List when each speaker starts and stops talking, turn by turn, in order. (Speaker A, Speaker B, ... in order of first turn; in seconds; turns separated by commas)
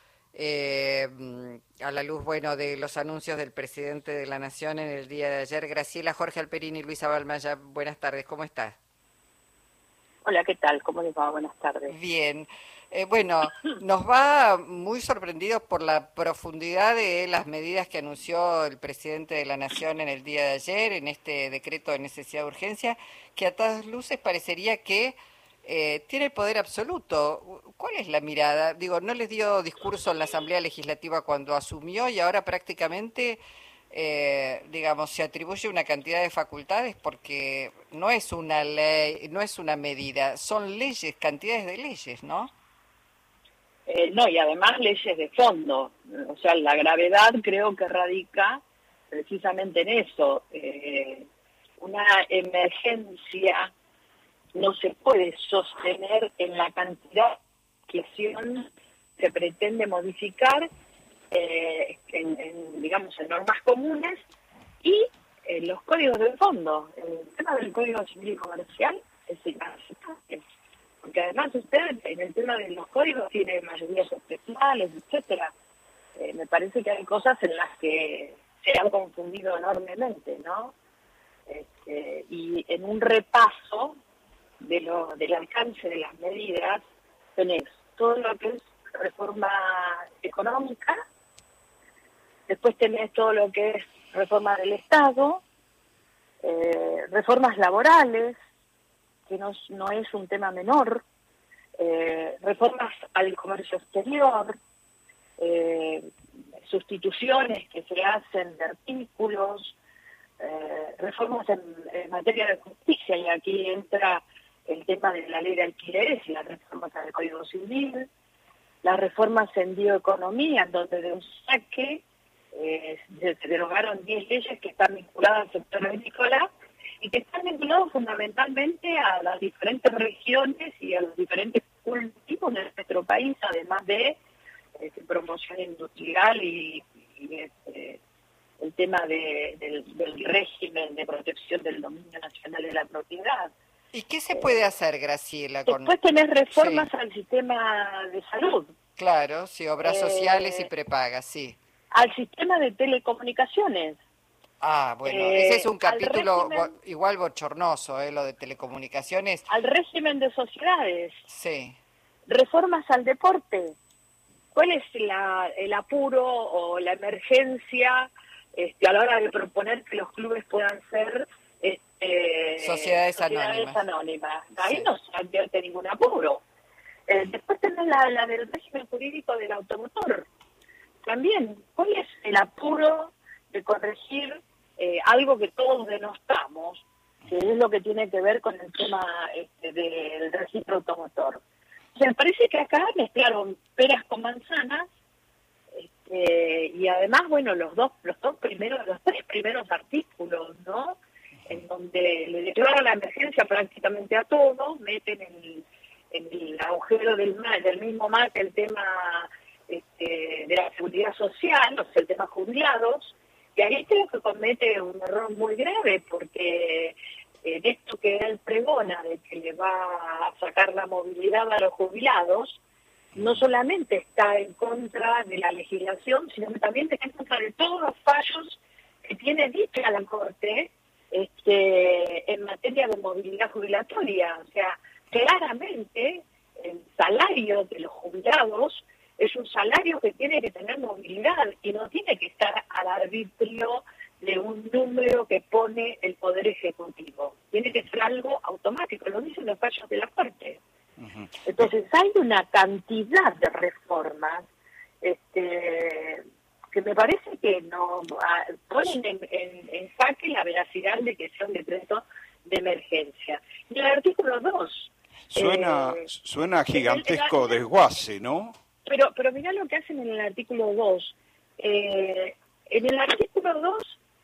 Speaker A: 0.3-8.8, Speaker B: 10.2-11.9, Speaker A: 11.9-33.4, Speaker A: 33.9-42.5, Speaker B: 43.9-51.3, Speaker B: 51.8-53.7, Speaker B: 54.5-57.4, Speaker B: 57.9-60.7, Speaker B: 61.3-64.2, Speaker B: 64.8-70.4, Speaker B: 71.0-75.5, Speaker B: 76.2-80.7, Speaker B: 81.5-84.0, Speaker B: 84.6-86.8, Speaker B: 87.3-91.0, Speaker B: 92.5-95.4, Speaker B: 96.4-98.4, Speaker B: 99.3-101.0, Speaker B: 101.8-104.5, Speaker B: 105.4-106.1, Speaker B: 106.6-109.8, Speaker B: 110.4-118.1, Speaker B: 118.8-126.5, Speaker B: 127.0-134.2, Speaker B: 134.8-138.0, Speaker B: 138.6-143.5, Speaker A: 143.9-145.9, Speaker B: 145.7-148.7, Speaker A: 146.5-146.9, Speaker A: 149.0-151.6, Speaker B: 149.8-150.7, Speaker B: 151.9-154.0, Speaker A: 154.6-159.5, Speaker B: 155.0-156.7, Speaker B: 159.5-161.2, Speaker A: 161.3-161.8, Speaker B: 162.3-163.7, Speaker B: 164.5-176.4, Speaker A: 172.6-173.8, Speaker B: 177.1-180.2, Speaker B: 181.0-191.4, Speaker B: 191.9-194.9, Speaker B: 195.7-222.6, Speaker B: 223.1-250.6, Speaker B: 251.4-254.5, Speaker B: 255.0-266.1, Speaker C: 265.3-268.6, Speaker B: 266.7-267.6, Speaker B: 268.9-273.9